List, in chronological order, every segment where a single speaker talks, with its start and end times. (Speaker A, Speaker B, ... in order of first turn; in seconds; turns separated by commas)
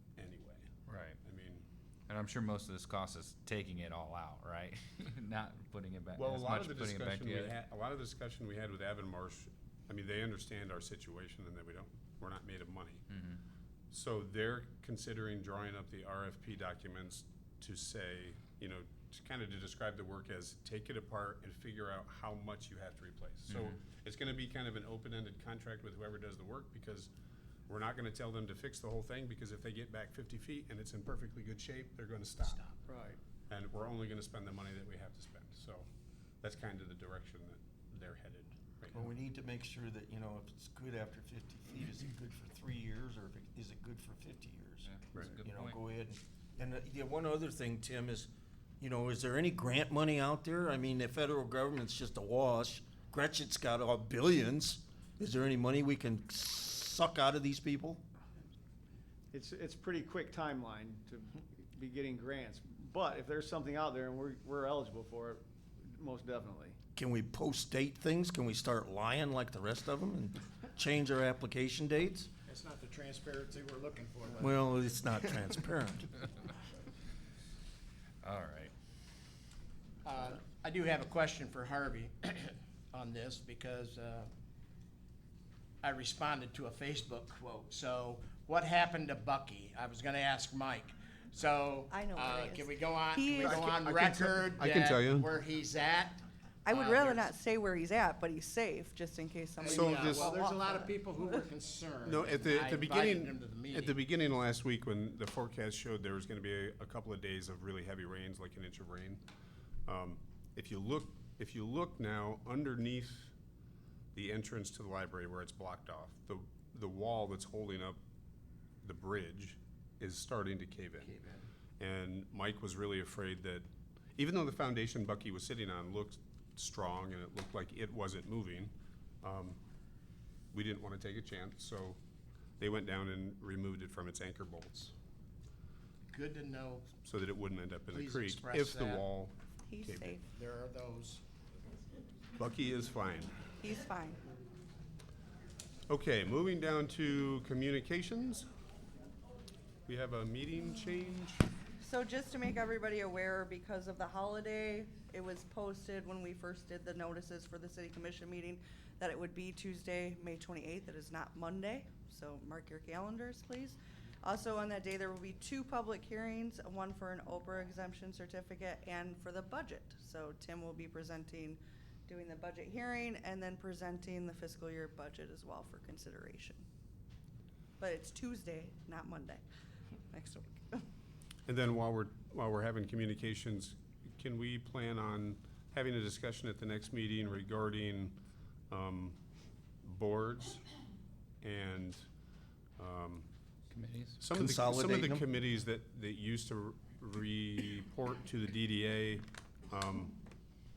Speaker A: 0.2-0.7, Speaker B: 0.9-1.2, Speaker A: 1.2-1.6, Speaker B: 2.1-7.5, Speaker A: 6.2-13.0, Speaker B: 13.1-13.4, Speaker A: 13.9-27.1, Speaker B: 23.5-23.8, Speaker A: 27.7-32.6, Speaker C: 32.4-32.8, Speaker D: 32.9-33.2, Speaker A: 33.5-35.9, Speaker A: 36.4-39.0, Speaker E: 38.9-58.0, Speaker B: 44.8-45.8, Speaker D: 59.3-66.8, Speaker E: 67.0-72.3, Speaker C: 72.5-74.7, Speaker E: 74.4-76.1, Speaker B: 78.2-78.7, Speaker C: 80.0-84.3, Speaker C: 85.8-97.3, Speaker F: 91.9-94.5, Speaker A: 94.6-95.3, Speaker F: 96.7-100.9, Speaker C: 99.6-104.0, Speaker A: 99.7-100.3, Speaker A: 102.1-109.2, Speaker A: 109.9-113.3, Speaker A: 114.1-118.0, Speaker A: 118.8-121.2, Speaker C: 121.0-121.5, Speaker A: 121.8-129.6, Speaker A: 130.5-132.0, Speaker A: 132.6-134.9, Speaker C: 136.1-137.0, Speaker A: 137.0-140.2, Speaker C: 137.9-139.1, Speaker F: 139.7-140.3, Speaker C: 140.3-141.2, Speaker A: 142.4-143.3, Speaker F: 143.6-144.2, Speaker A: 145.9-148.5, Speaker A: 149.9-151.5, Speaker F: 151.8-176.7, Speaker F: 177.8-179.4, Speaker F: 180.1-180.8, Speaker A: 181.5-188.2, Speaker A: 188.7-189.2, Speaker A: 189.8-190.6, Speaker A: 191.4-192.1, Speaker A: 192.8-193.3, Speaker B: 193.7-194.2, Speaker A: 194.2-200.2, Speaker E: 194.3-195.2